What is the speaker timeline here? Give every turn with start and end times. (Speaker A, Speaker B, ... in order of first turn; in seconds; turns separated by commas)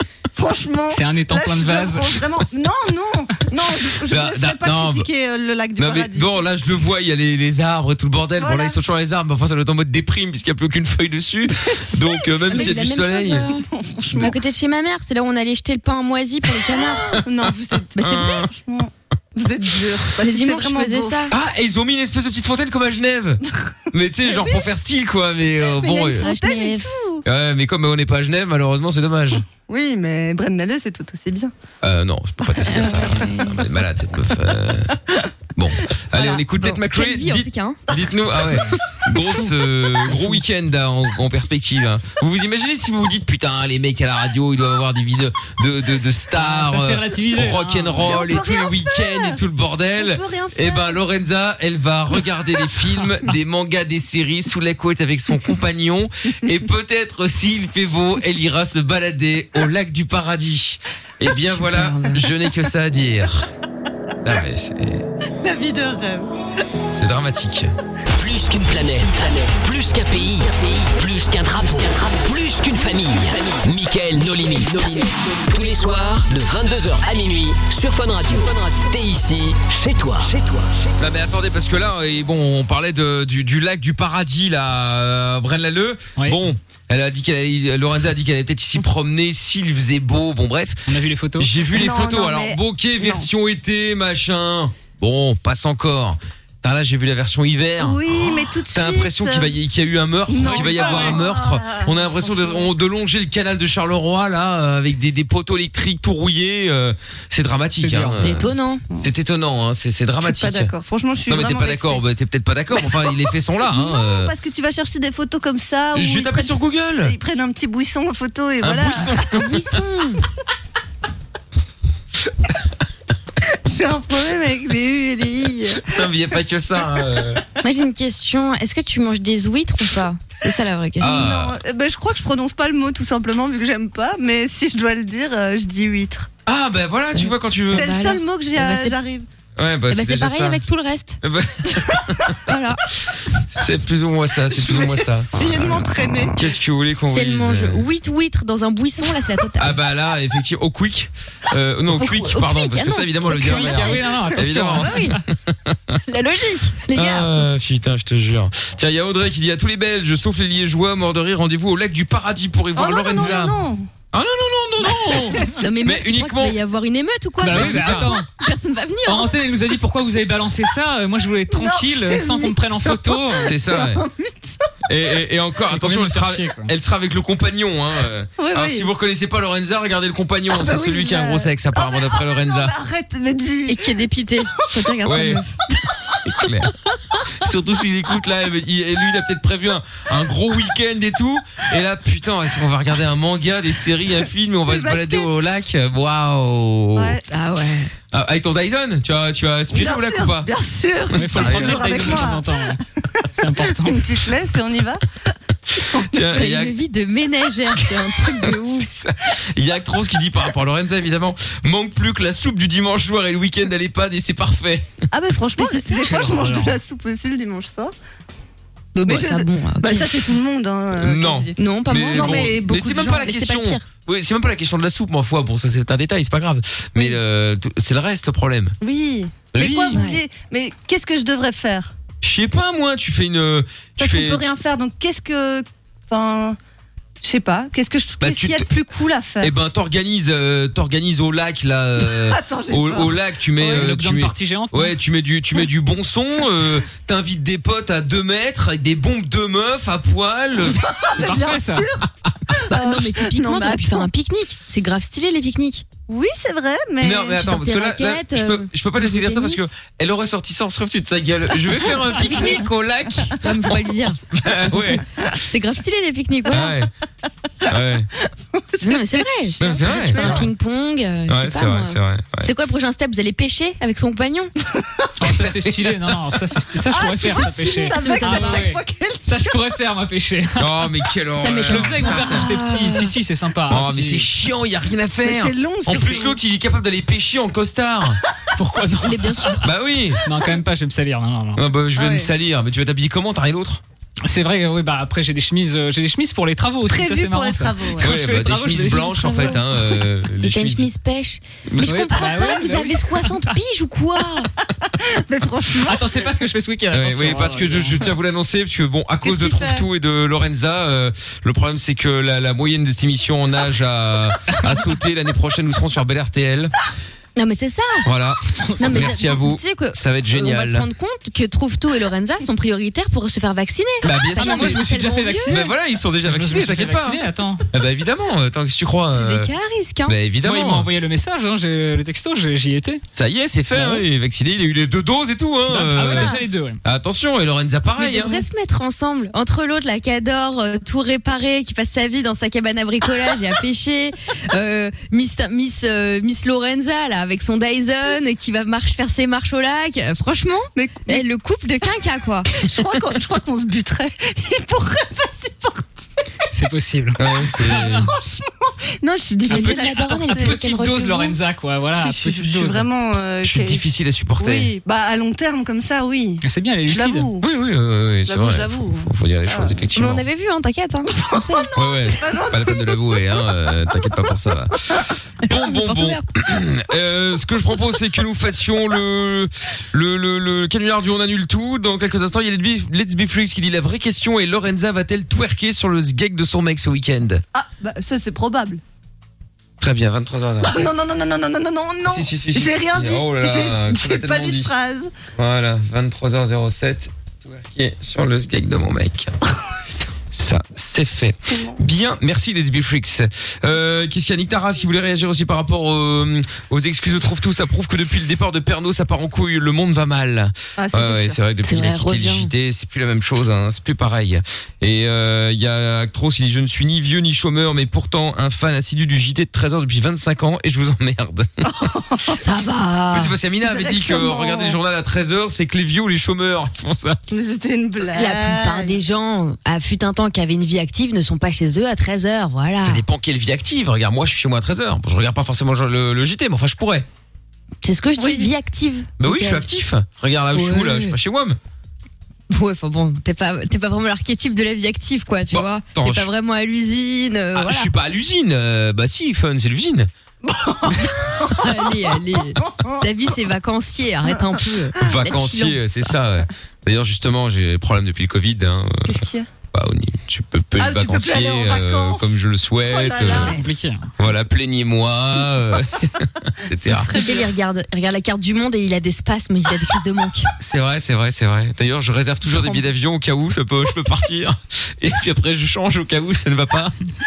Speaker A: 0.3-6.3, Speaker B: 0.9-2.2, Speaker C: 4.1-5.1, Speaker C: 5.8-13.5, Speaker A: 8.4-8.8, Speaker D: 12.5-17.2, Speaker A: 12.5-14.4, Speaker A: 16.8-21.3, Speaker D: 18.0-18.5, Speaker C: 18.0-18.5, Speaker D: 20.2-21.3, Speaker C: 21.3-23.4, Speaker C: 23.9-26.2, Speaker A: 24.3-24.6, Speaker A: 25.8-27.2, Speaker D: 26.1-26.9, Speaker C: 27.2-29.4, Speaker A: 29.5-31.5, Speaker C: 31.8-34.9, Speaker D: 32.7-33.6, Speaker C: 35.6-63.5, Speaker D: 36.1-37.8, Speaker B: 38.4-38.8, Speaker B: 46.4-48.1, Speaker A: 48.1-49.4, Speaker A: 50.0-51.0, Speaker D: 61.3-62.2, Speaker C: 64.2-65.1, Speaker A: 65.4-66.3, Speaker C: 66.9-67.7, Speaker E: 68.2-80.7, Speaker C: 81.0-90.9, Speaker B: 90.9-91.5, Speaker C: 91.4-108.4, Speaker A: 91.7-93.3, Speaker A: 97.8-99.5, Speaker A: 100.3-102.7, Speaker B: 100.5-100.9, Speaker B: 107.8-108.3, Speaker D: 108.2-108.8, Speaker C: 109.0-110.7, Speaker A: 110.2-112.0, Speaker C: 111.3-114.3, Speaker A: 113.7-119.2, Speaker C: 116.0-117.2, Speaker C: 118.6-119.6, Speaker D: 119.3-120.2, Speaker A: 123.7-125.9, Speaker C: 125.8-127.4, Speaker D: 127.6-131.3, Speaker C: 131.0-131.6, Speaker A: 131.0-136.3, Speaker C: 136.5-137.9, Speaker D: 137.2-139.0, Speaker A: 137.7-139.3, Speaker C: 139.6-140.6, Speaker D: 139.9-141.2, Speaker C: 141.2-142.3, Speaker D: 142.5-142.8, Speaker C: 143.6-145.4, Speaker A: 144.7-146.4, Speaker C: 146.4-147.8, Speaker D: 147.1-149.8, Speaker C: 149.6-156.0, Speaker D: 151.9-155.2, Speaker B: 153.3-155.2, Speaker D: 156.1-157.4, Speaker C: 156.9-163.6, Speaker A: 162.8-163.9, Speaker C: 164.1-166.6, Speaker D: 165.6-169.3, Speaker B: 167.4-168.3, Speaker C: 167.5-168.2, Speaker B: 169.1-173.5, Speaker A: 171.5-174.5, Speaker C: 173.4-174.0, Speaker C: 174.9-182.7, Speaker B: 175.7-176.7, Speaker A: 178.4-178.9, Speaker A: 180.5-184.0, Speaker D: 183.7-185.6, Speaker C: 185.0-185.4, Speaker C: 186.2-186.7, Speaker C: 187.4-197.2, Speaker A: 194.7-195.3, Speaker A: 197.0-197.2, Speaker D: 197.3-197.9, Speaker C: 198.1-200.5, Speaker A: 199.7-202.5, Speaker B: 201.1-202.8, Speaker C: 201.2-202.3, Speaker B: 203.4-204.1, Speaker A: 203.8-205.0, Speaker C: 206.1-206.7, Speaker D: 206.3-208.9, Speaker C: 207.8-214.9, Speaker A: 215.1-217.9, Speaker D: 215.6-216.1, Speaker B: 216.1-216.8, Speaker D: 218.9-220.1, Speaker A: 219.1-223.3, Speaker C: 220.9-228.8, Speaker D: 221.6-223.8, Speaker A: 228.8-231.9, Speaker C: 229.5-230.0, Speaker D: 229.9-230.2, Speaker C: 232.2-234.5, Speaker A: 234.0-236.6, Speaker A: 237.2-239.5, Speaker C: 238.2-238.7, Speaker C: 239.4-250.8, Speaker A: 242.1-243.8, Speaker B: 243.6-244.9, Speaker A: 250.7-254.1, Speaker B: 251.2-251.9, Speaker D: 252.7-255.8, Speaker A: 256.1-257.4, Speaker C: 257.0-265.0, Speaker D: 257.3-259.7, Speaker D: 263.4-266.7, Speaker C: 266.5-266.9, Speaker C: 267.7-268.1, Speaker A: 268.6-270.5, Speaker D: 268.8-274.5, Speaker C: 269.6-270.3, Speaker C: 271.3-272.5, Speaker B: 275.2-280.9, Speaker C: 275.2-276.1, Speaker A: 276.9-279.6, Speaker D: 277.3-278.7, Speaker C: 280.6-282.5, Speaker D: 281.4-283.1, Speaker B: 281.7-284.3, Speaker C: 283.7-288.2, Speaker A: 285.2-286.4, Speaker B: 288.6-289.6, Speaker D: 289.0-289.7, Speaker C: 289.6-290.2, Speaker B: 290.2-291.6, Speaker C: 291.6-293.8, Speaker A: 292.0-292.3, Speaker B: 294.2-299.6, Speaker A: 296.9-298.1, Speaker C: 298.0-300.9, Speaker D: 299.1-299.6, Speaker D: 300.4-304.5, Speaker C: 301.7-301.9, Speaker B: 301.9-303.5, Speaker A: 302.2-302.9, Speaker A: 305.0-306.2, Speaker B: 305.8-308.1, Speaker C: 306.9-316.7, Speaker A: 309.2-309.8, Speaker D: 317.4-318.1, Speaker C: 318.1-320.9, Speaker B: 318.6-319.0, Speaker D: 318.8-325.6, Speaker C: 324.0-324.8, Speaker B: 324.3-327.6, Speaker C: 325.5-327.2, Speaker C: 327.7-329.5, Speaker D: 329.1-330.2, Speaker C: 330.1-330.9, Speaker B: 330.4-333.0, Speaker C: 333.1-338.4, Speaker B: 333.8-334.0, Speaker B: 335.7-336.8, Speaker D: 338.0-352.5, Speaker A: 350.8-351.2, Speaker A: 352.5-355.8, Speaker B: 356.5-358.0, Speaker C: 357.2-358.1, Speaker A: 358.0-360.5, Speaker D: 359.5-361.4, Speaker B: 359.5-362.9, Speaker A: 362.0-363.8, Speaker C: 363.4-364.7, Speaker A: 364.4-367.5, Speaker B: 366.4-367.3, Speaker C: 367.4-370.2, Speaker A: 368.3-369.8, Speaker D: 370.0-371.7, Speaker A: 371.2-373.0, Speaker C: 371.8-374.8, Speaker C: 375.4-387.4, Speaker D: 375.5-376.2, Speaker A: 387.5-388.8, Speaker C: 389.8-390.9, Speaker A: 390.6-395.1, Speaker C: 392.1-394.7, Speaker C: 395.4-399.3, Speaker C: 400.3-421.7, Speaker A: 410.8-411.4, Speaker D: 411.6-412.5, Speaker A: 421.6-422.4, Speaker D: 422.4-423.3, Speaker C: 423.1-427.2, Speaker A: 423.6-424.8, Speaker A: 427.3-429.0, Speaker D: 428.1-433.0, Speaker C: 432.8-437.1, Speaker D: 437.8-439.6, Speaker A: 438.2-438.5, Speaker C: 439.2-441.6, Speaker D: 440.5-441.1, Speaker D: 442.5-447.9, Speaker C: 445.5-446.3, Speaker C: 447.6-450.1, Speaker A: 450.4-452.0, Speaker D: 451.0-456.1, Speaker A: 452.6-453.0, Speaker A: 454.3-454.6, Speaker C: 455.0-463.5, Speaker A: 459.1-459.5, Speaker A: 460.8-462.3, Speaker A: 462.9-463.6, Speaker D: 463.3-463.6, Speaker B: 463.4-464.1, Speaker C: 464.2-467.1, Speaker A: 467.0-467.5, Speaker D: 467.1-470.5, Speaker C: 470.6-476.9, Speaker D: 472.5-472.9